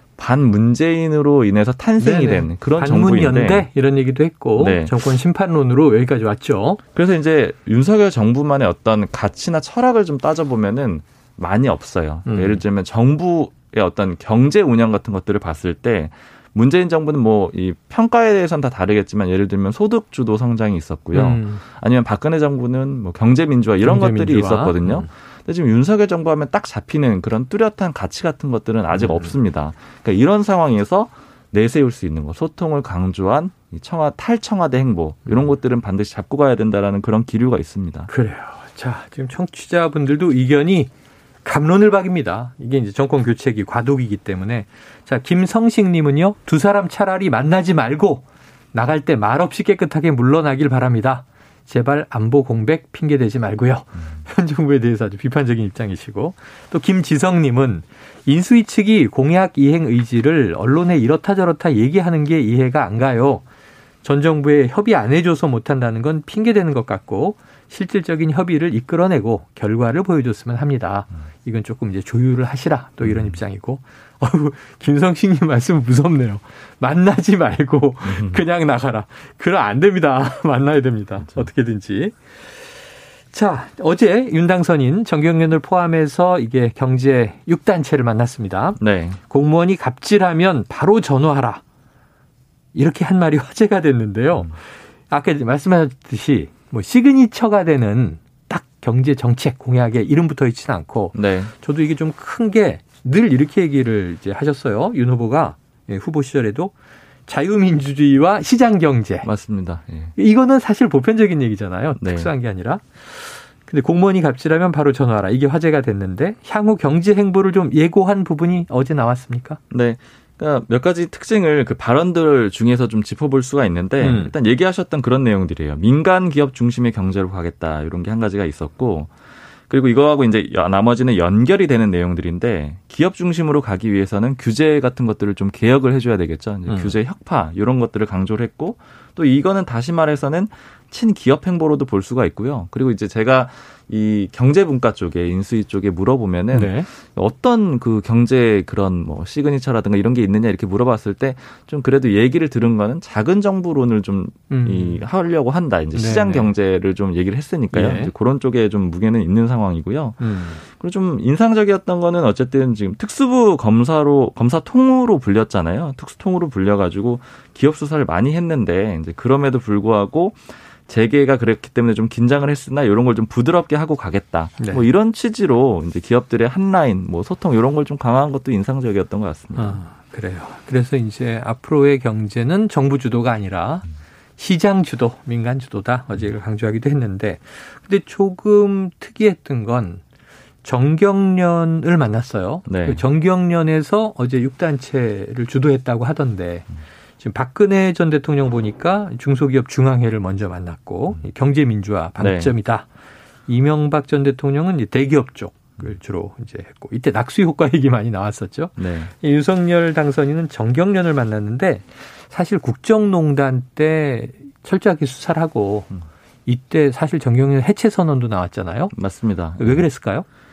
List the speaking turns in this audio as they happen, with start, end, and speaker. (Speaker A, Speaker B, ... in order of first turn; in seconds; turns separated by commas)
Speaker A: 0.2-3.7, Speaker B: 2.0-6.8, Speaker A: 4.6-5.0, Speaker A: 7.0-38.1, Speaker B: 12.3-12.6, Speaker B: 21.1-21.6, Speaker B: 23.8-25.1, Speaker B: 28.9-29.3, Speaker B: 38.1-40.9, Speaker B: 41.4-48.2, Speaker B: 48.7-63.4, Speaker B: 64.0-82.2, Speaker A: 73.0-73.4, Speaker A: 78.1-78.4, Speaker B: 83.3-91.6, Speaker A: 88.8-89.2, Speaker B: 92.7-106.7, Speaker A: 101.1-101.5, Speaker B: 107.3-109.3, Speaker A: 109.2-110.1, Speaker B: 110.2-119.6, Speaker A: 112.0-112.3, Speaker A: 119.7-129.1, Speaker B: 124.0-124.3, Speaker A: 129.7-179.8, Speaker B: 136.7-136.9, Speaker B: 146.5-146.9, Speaker B: 154.5-155.0, Speaker B: 155.9-156.5, Speaker B: 157.7-158.1, Speaker B: 160.2-160.6, Speaker B: 174.6-174.8, Speaker B: 179.6-183.9, Speaker B: 184.4-190.0, Speaker B: 190.6-196.7, Speaker A: 192.7-193.0, Speaker B: 197.2-202.9, Speaker A: 202.2-202.5, Speaker B: 203.5-215.9, Speaker A: 208.8-209.1, Speaker B: 216.5-218.9, Speaker A: 218.9-219.9, Speaker B: 219.6-220.3